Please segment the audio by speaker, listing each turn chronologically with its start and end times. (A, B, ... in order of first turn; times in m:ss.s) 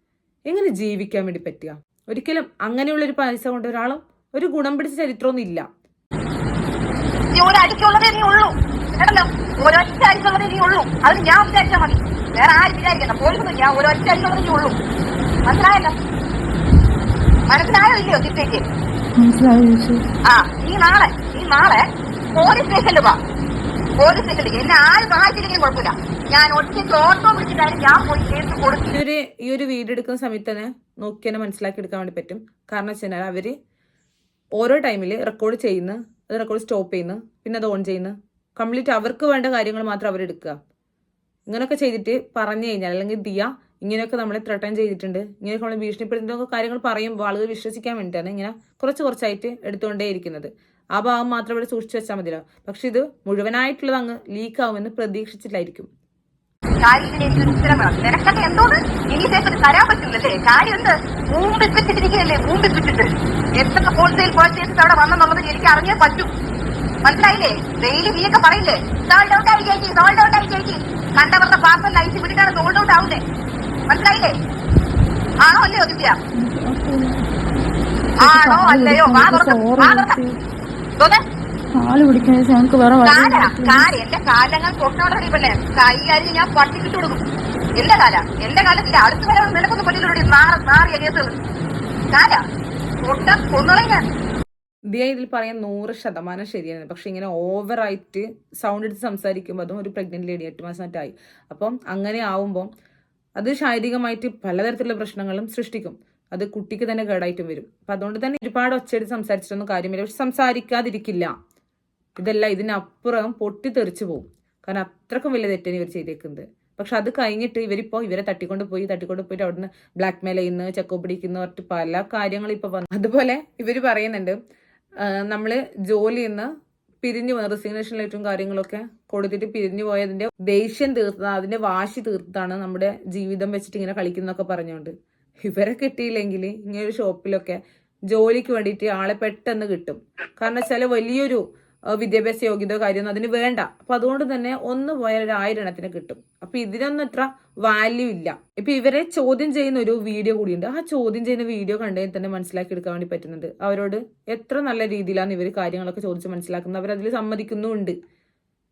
0:00.5-0:05.7 A
0:07.3-0:14.8 B
0:15.5-0:16.0 B
0:17.5-0:18.7 B
0:19.2-0:20.0 C
0:20.3-0:21.8 B
0:22.3-0:23.2 B
0:24.0-0:28.9 B
0:28.9-0:33.5 A
0:34.6-0:40.6 A
0:41.5-0:55.9 A
0:56.8-1:06.3 B
1:07.0-1:13.2 B
1:13.9-1:14.4 B
1:15.4-1:16.2 B
1:16.3-1:17.3 C
1:18.2-1:20.2 B
1:18.2-1:20.4 C
1:21.7-1:23.9 C
1:23.0-1:27.2 B
1:27.8-1:31.4 B
1:32.1-1:32.4 B
1:33.0-1:34.1 B
1:34.9-1:42.7 A
1:43.4-1:51.3 A
1:52.2-2:04.4 A
2:05.0-2:06.5 A
2:07.0-2:14.9 A
2:15.4-2:21.4 A
2:22.0-2:38.0 A